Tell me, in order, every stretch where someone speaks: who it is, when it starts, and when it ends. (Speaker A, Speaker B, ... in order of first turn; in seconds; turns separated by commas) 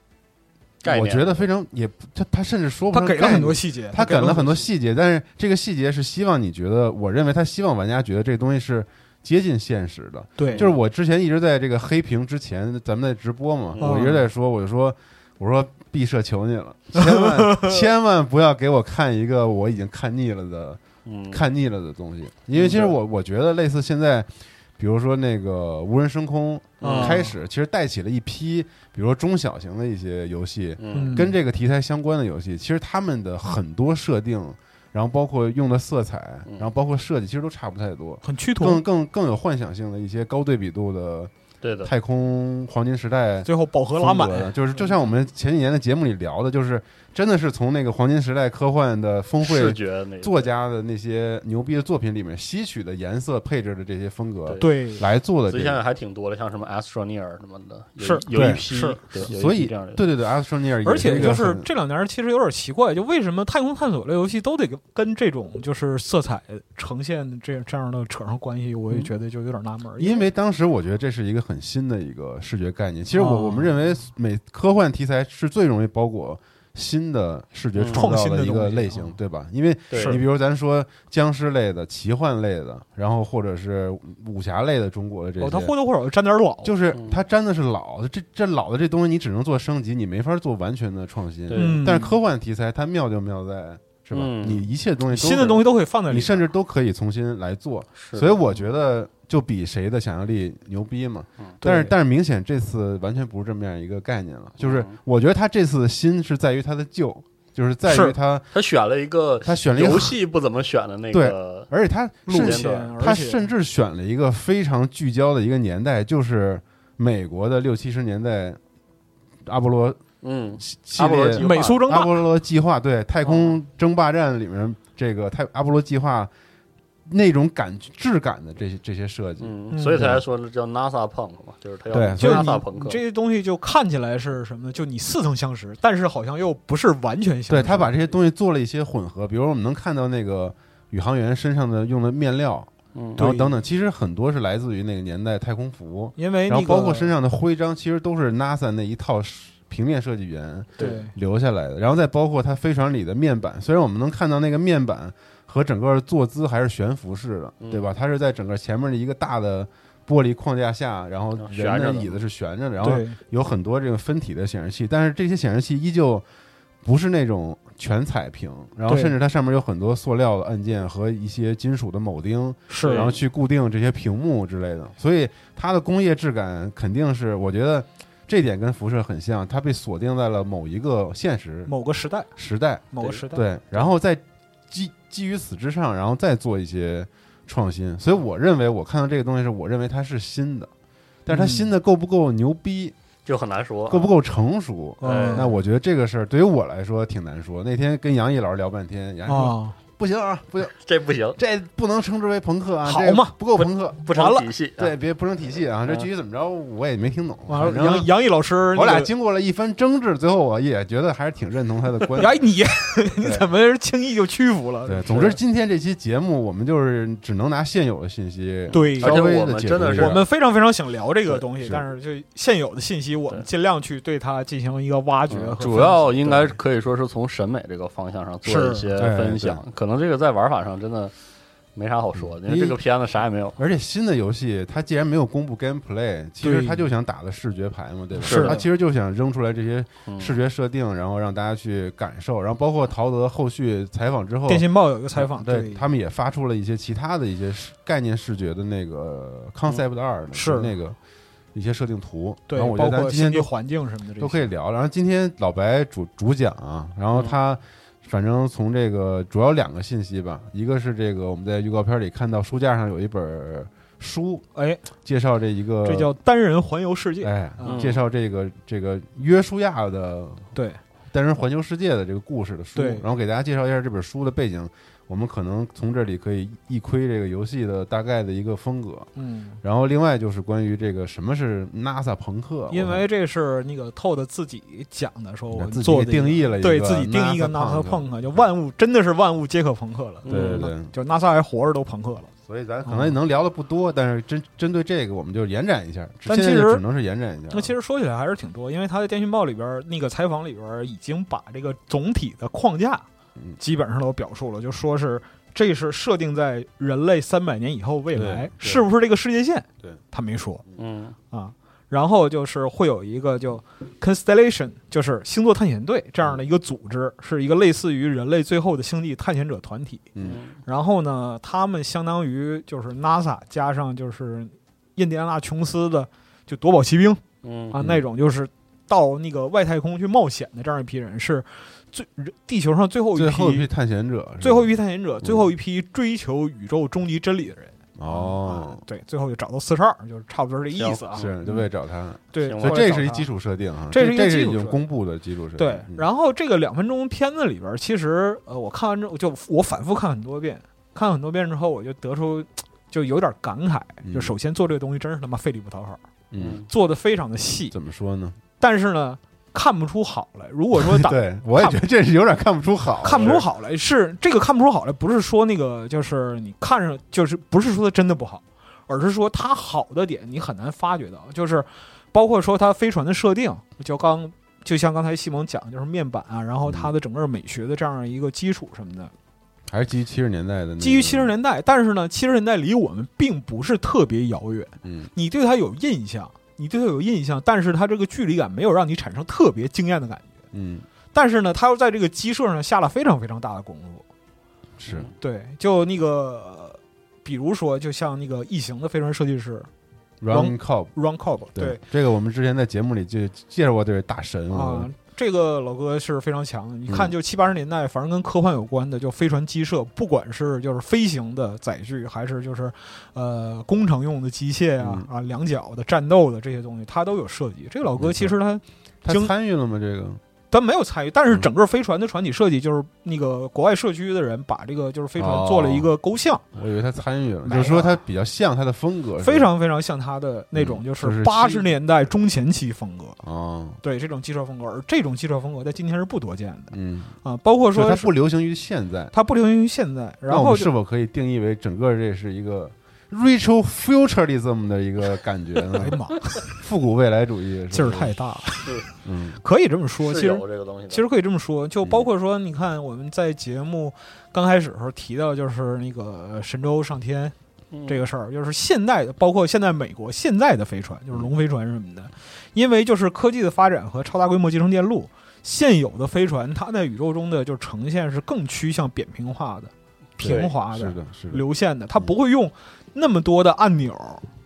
Speaker A: 0.8-1.5, Speaker B: 0.8-41.3, Speaker C: 2.9-4.7, Speaker C: 10.4-10.7, Speaker A: 10.5-10.8, Speaker A: 13.7-14.1, Speaker C: 13.8-14.2, Speaker C: 16.9-17.8, Speaker A: 21.0-21.4, Speaker A: 22.5-23.0, Speaker A: 26.8-27.2, Speaker C: 26.8-27.3, Speaker A: 30.8-31.3, Speaker C: 30.9-31.3, Speaker C: 38.2-38.8, Speaker A: 41.6-41.9, Speaker B: 41.8-55.8, Speaker C: 43.4-44.9, Speaker A: 49.4-50.5, Speaker A: 54.4-54.7, Speaker C: 54.6-55.0, Speaker A: 55.5-60.0, Speaker C: 58.0-59.3, Speaker B: 58.3-61.7, Speaker C: 60.8-70.2, Speaker A: 61.0-61.4, Speaker B: 70.0-85.7, Speaker C: 73.1-73.7, Speaker A: 77.7-78.0, Speaker C: 77.9-79.2, Speaker A: 79.9-80.2, Speaker C: 79.9-80.2, Speaker C: 85.4-86.7, Speaker B: 86.6-108.5, Speaker A: 86.9-87.2, Speaker A: 91.5-91.9, Speaker C: 91.6-92.2, Speaker A: 94.1-94.7, Speaker C: 95.1-96.5, Speaker A: 98.0-98.5, Speaker C: 101.6-101.9, Speaker A: 104.6-105.0, Speaker C: 107.8-108.2, Speaker A: 108.5-111.7, Speaker B: 109.4-110.2, Speaker B: 111.1-118.6, Speaker C: 112.3-113.5, Speaker A: 112.3-112.9, Speaker B: 119.4-120.0, Speaker A: 120.2-121.8, Speaker B: 120.6-126.3, Speaker C: 121.4-122.2, Speaker A: 123.2-123.6, Speaker B: 127.1-130.2, Speaker A: 129.4-133.0, Speaker C: 129.7-130.2, Speaker B: 131.9-132.6, Speaker C: 132.2-137.9, Speaker B: 137.5-166.2, Speaker A: 142.9-143.2, Speaker C: 143.2-143.6, Speaker C: 146.2-147.1, Speaker C: 150.8-151.1, Speaker A: 157.6-157.9, Speaker A: 161.4-162.2, Speaker C: 162.8-163.2, Speaker B: 166.8-181.7, Speaker C: 168.9-169.2, Speaker C: 172.7-173.1, Speaker A: 172.8-173.1, Speaker C: 181.7-182.3, Speaker B: 182.3-190.7, Speaker C: 182.9-183.8, Speaker B: 191.2-192.9, Speaker C: 191.3-191.7, Speaker A: 193.2-194.1, Speaker B: 193.9-200.7, Speaker C: 195.0-195.5, Speaker A: 195.0-195.5, Speaker C: 199.3-199.8, Speaker A: 200.7-201.4, Speaker B: 201.3-204.0, Speaker C: 202.8-204.5, Speaker A: 204.1-204.9, Speaker B: 204.8-208.1, Speaker C: 207.5-209.1, Speaker B: 208.7-212.4, Speaker C: 212.2-215.4, Speaker B: 213.2-213.5, Speaker B: 214.8-220.2, Speaker C: 218.7-219.2, Speaker A: 218.7-220.3, Speaker C: 220.0-226.6, Speaker B: 221.3-221.8, Speaker A: 225.3-231.1, Speaker C: 228.4-228.9, Speaker B: 229.0-229.6, Speaker A: 231.7-233.6, Speaker B: 232.1-232.8, Speaker B: 233.6-251.0, Speaker C: 236.4-236.8, Speaker A: 238.2-238.6, Speaker C: 238.2-238.6, Speaker A: 240.1-240.3, Speaker C: 244.5-245.8, Speaker C: 250.3-250.7, Speaker B: 251.5-253.5, Speaker C: 252.5-254.5, Speaker B: 254.2-264.4, Speaker C: 264.5-264.8, Speaker B: 265.0-266.1, Speaker C: 265.8-267.9, Speaker B: 267.2-270.5, Speaker A: 267.6-268.0, Speaker C: 270.5-270.8, Speaker B: 271.1-279.1, Speaker C: 272.7-273.0, Speaker C: 279.1-279.6, Speaker B: 279.6-283.0, Speaker C: 282.7-292.3, Speaker B: 285.5-288.4, Speaker A: 290.2-290.7, Speaker B: 290.3-290.9, Speaker B: 292.4-297.7, Speaker C: 292.8-293.1, Speaker C: 296.2-296.8, Speaker C: 297.5-303.1, Speaker C: 303.6-310.6, Speaker B: 308.1-308.9, Speaker A: 310.8-311.1, Speaker C: 311.3-320.1, Speaker B: 320.1-320.4, Speaker A: 320.2-320.6, Speaker C: 320.6-333.7, Speaker A: 327.4-327.7, Speaker B: 327.8-328.0, Speaker B: 333.1-334.7, Speaker C: 334.4-341.6, Speaker B: 335.2-335.5, Speaker B: 338.0-338.8, Speaker A: 340.7-341.3, Speaker B: 341.2-346.0, Speaker C: 342.3-343.3, Speaker A: 342.4-342.9, Speaker C: 343.9-344.8, Speaker C: 345.6-356.0, Speaker B: 354.0-354.3, Speaker B: 356.3-356.6, Speaker A: 356.4-356.6, Speaker C: 356.7-357.7, Speaker B: 357.7-358.4, Speaker C: 358.6-361.8, Speaker B: 360.7-363.4, Speaker C: 363.0-379.1, Speaker A: 363.1-363.4, Speaker B: 376.6-376.9, Speaker B: 379.7-381.3, Speaker C: 380.8-390.4, Speaker B: 384.8-385.1, Speaker B: 390.5-390.9, Speaker C: 391.1-394.0, Speaker B: 394.8-395.1, Speaker C: 395.2-399.7, Speaker B: 400.2-400.9, Speaker C: 400.3-401.8, Speaker B: 401.5-404.9, Speaker C: 404.5-419.3, Speaker B: 406.9-407.1, Speaker B: 414.8-415.1, Speaker B: 417.9-418.3, Speaker B: 419.0-420.2, Speaker C: 420.5-426.4, Speaker B: 425.2-425.9, Speaker B: 426.5-429.5, Speaker C: 427.4-428.0, Speaker C: 429.2-433.2, Speaker B: 430.5-431.7, Speaker B: 433.2-433.8, Speaker C: 433.8-438.1, Speaker B: 436.7-437.2, Speaker B: 437.7-439.1, Speaker C: 439.1-440.7, Speaker B: 440.3-448.1, Speaker C: 445.8-446.4, Speaker C: 447.7-448.7, Speaker A: 448.6-448.9, Speaker B: 449.0-449.4, Speaker C: 449.4-457.3, Speaker A: 450.0-451.0, Speaker A: 457.7-458.0, Speaker C: 457.9-474.2, Speaker B: 470.2-471.4